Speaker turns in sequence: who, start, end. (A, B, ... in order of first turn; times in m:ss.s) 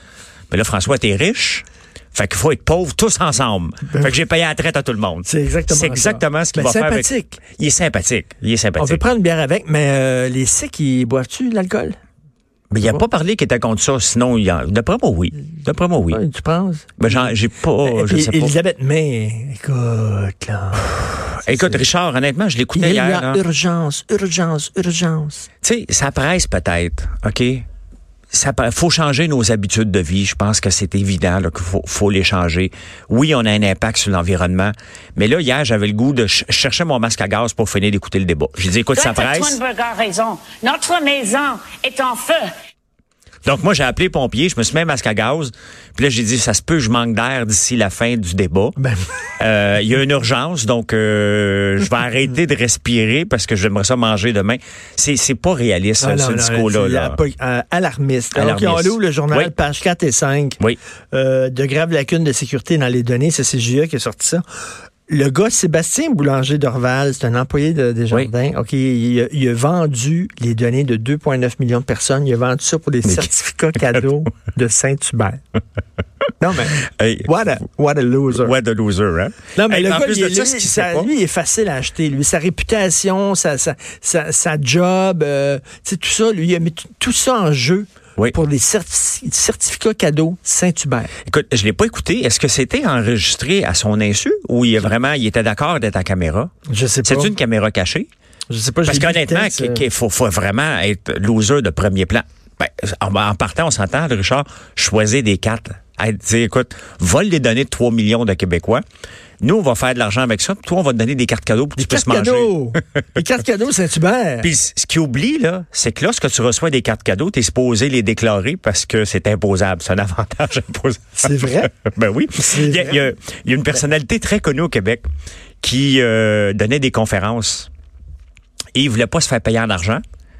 0:00.5-0:09.0 A
0:05.2-0:07.4 B
0:08.8-0:12.0 B
0:12.7-0:16.2 A
0:16.1-0:17.3 B
0:17.0-0:18.5 A
0:17.8-0:21.8 B
0:21.4-0:23.4 A
0:22.7-0:25.5 B
0:25.6-0:27.6 A
0:28.3-0:39.6 A
0:38.9-0:42.5 C
0:43.4-0:48.8 A
0:48.8-0:49.0 B
0:49.4-0:57.2 A
0:56.0-1:00.6 B
0:58.3-0:59.5 A
1:01.1-1:04.4 B
1:05.1-1:15.4 B
1:16.4-1:18.5 B
1:16.8-1:17.3 A
1:18.3-1:21.1 A
1:19.6-1:31.1 B
1:31.2-1:36.5 A
1:36.7-1:37.3 B
1:37.0-1:38.1 A
1:38.5-1:39.8 B
1:38.8-1:48.8 A
1:49.4-1:52.5 A
1:51.8-1:54.5 B
1:54.4-2:05.0 A
2:01.2-2:01.7 B
2:02.4-2:03.0 B
2:05.6-2:07.7 A
2:08.7-2:10.0 A